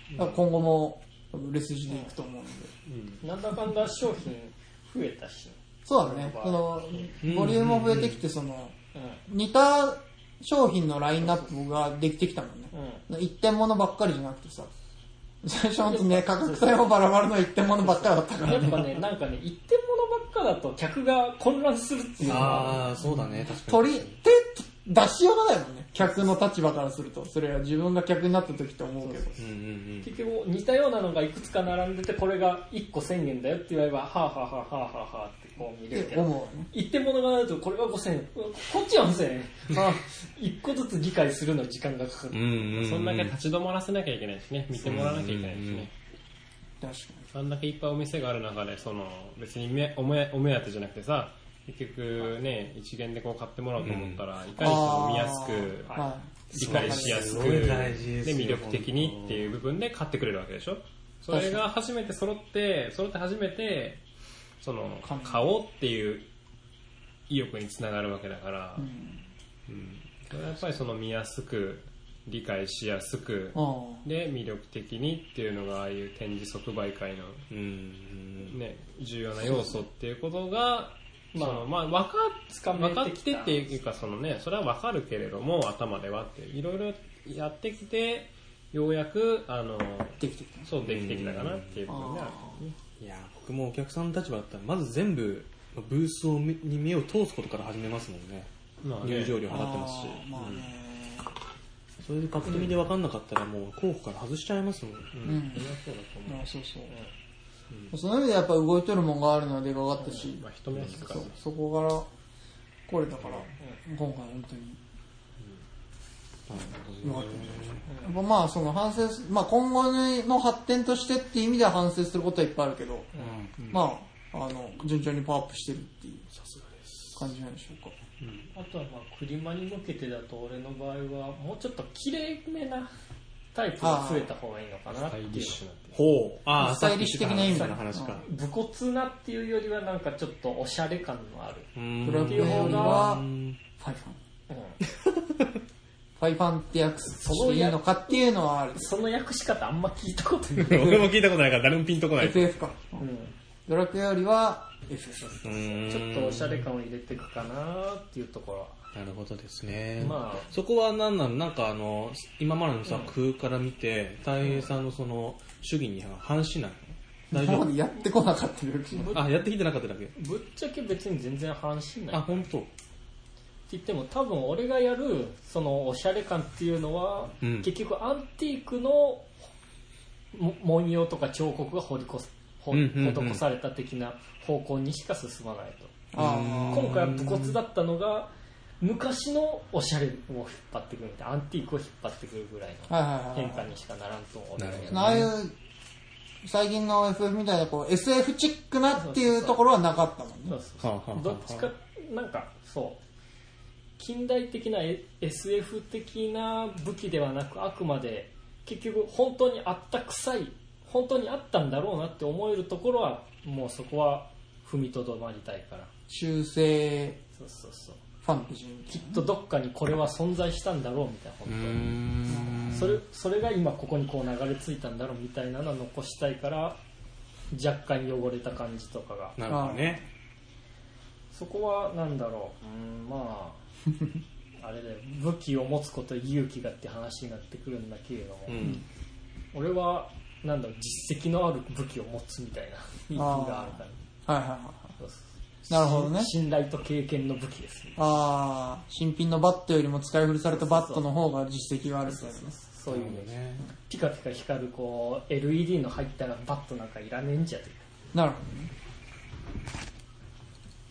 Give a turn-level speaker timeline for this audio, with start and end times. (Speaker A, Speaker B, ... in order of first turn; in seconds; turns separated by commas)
Speaker A: 0.1-0.4, Speaker B: 0.1-2.7, Speaker A: 2.9-3.2, Speaker C: 3.2-7.1, Speaker B: 5.8-8.7, Speaker D: 7.2-8.2, Speaker C: 8.9-9.2, Speaker B: 9.3-14.7, Speaker C: 11.2-11.5, Speaker C: 12.7-13.0, Speaker B: 15.4-19.0, Speaker C: 15.8-16.8, Speaker C: 17.8-22.9, Speaker D: 22.2-24.1, Speaker B: 22.3-29.3, Speaker C: 29.0-29.4, Speaker D: 29.4-30.1, Speaker C: 30.0-42.5, Speaker B: 35.9-36.7, Speaker D: 42.3-43.3, Speaker A: 42.8-45.9, Speaker D: 44.7-45.9, Speaker B: 46.8-47.3, Speaker A: 47.3-64.0, Speaker D: 53.8-54.2, Speaker B: 54.5-57.4, Speaker D: 56.5-59.5, Speaker B: 61.3-61.6, Speaker A: 64.6-66.3, Speaker B: 65.0-65.4, Speaker A: 67.3-68.9, Speaker B: 68.8-69.2, Speaker A: 69.7-77.4, Speaker B: 73.5-74.0, Speaker D: 77.5-78.5, Speaker A: 78.4-92.7, Speaker B: 79.4-79.8, Speaker C: 81.3-81.7, Speaker C: 82.5-83.8, Speaker B: 90.2-90.7, Speaker D: 90.8-91.8, Speaker B: 91.9-92.6, Speaker D: 93.0-98.5, Speaker A: 98.8-99.4, Speaker D: 99.0-100.2, Speaker B: 99.5-101.3, Speaker A: 100.3-100.7, Speaker D: 102.0-105.1, Speaker A: 105.1-106.5, Speaker B: 105.2-105.7, Speaker B: 106.2-106.9, Speaker B: 107.9-110.4, Speaker C: 110.0-110.3, Speaker A: 110.3-111.3, Speaker D: 110.7-111.0, Speaker B: 111.0-112.0, Speaker B: 112.9-114.8, Speaker D: 116.5-117.8, Speaker B: 117.0-123.1, Speaker C: 117.9-118.2, Speaker C: 123.1-123.5, Speaker D: 123.2-123.5, Speaker B: 123.7-126.2, Speaker D: 126.3-127.3, Speaker B: 127.2-127.9, Speaker A: 128.2-128.5, Speaker C: 128.5-132.9, Speaker C: 133.5-135.6, Speaker B: 133.8-134.3, Speaker A: 134.9-136.0, Speaker D: 135.9-138.2, Speaker B: 136.6-138.2, Speaker C: 137.4-141.7, Speaker D: 141.7-143.6, Speaker B: 142.0-143.2, Speaker C: 142.2-143.1, Speaker B: 143.8-144.2, Speaker C: 144.5-144.8, Speaker D: 144.8-145.5, Speaker B: 146.2-148.9, Speaker C: 147.2-148.2, Speaker C: 148.8-151.1, Speaker D: 150.6-152.5, Speaker B: 152.2-153.1, Speaker C: 153.0-153.3, Speaker B: 153.7-155.8, Speaker D: 155.4-156.7, Speaker C: 155.8-158.8, Speaker D: 158.9-167.7, Speaker C: 160.0-160.5, Speaker B: 167.3-169.2, Speaker C: 168.9-169.4, Speaker D: 169.1-170.1, Speaker C: 170.1-172.5, Speaker D: 172.1-172.7, Speaker C: 173.7-179.3, Speaker D: 177.4-177.7, Speaker C: 180.3-186.0, Speaker D: 182.7-183.4, Speaker B: 186.1-187.0, Speaker D: 186.1-187.6, Speaker C: 186.7-195.3, Speaker B: 192.9-193.7, Speaker D: 194.6-195.3, Speaker B: 194.9-195.5, Speaker B: 196.4-200.6, Speaker C: 198.9-199.6, Speaker C: 200.5-203.0, Speaker D: 200.8-201.7, Speaker C: 204.0-215.9, Speaker B: 216.1-217.2, Speaker C: 217.3-218.0, Speaker B: 218.2-219.2, Speaker C: 218.9-222.0, Speaker D: 221.4-223.0, Speaker B: 222.3-222.8, Speaker C: 222.7-226.8, Speaker C: 227.5-229.3, Speaker D: 229.4-230.0, Speaker B: 229.4-230.0, Speaker C: 231.3-233.6, Speaker C: 234.6-238.7, Speaker D: 238.5-238.8, Speaker C: 239.5-244.0, Speaker B: 243.1-244.9, Speaker C: 245.0-248.0, Speaker B: 245.7-246.3, Speaker B: 247.9-252.5, Speaker C: 250.5-251.1, Speaker C: 252.0-253.3, Speaker D: 252.9-253.7, Speaker C: 253.9-257.8, Speaker B: 258.1-258.7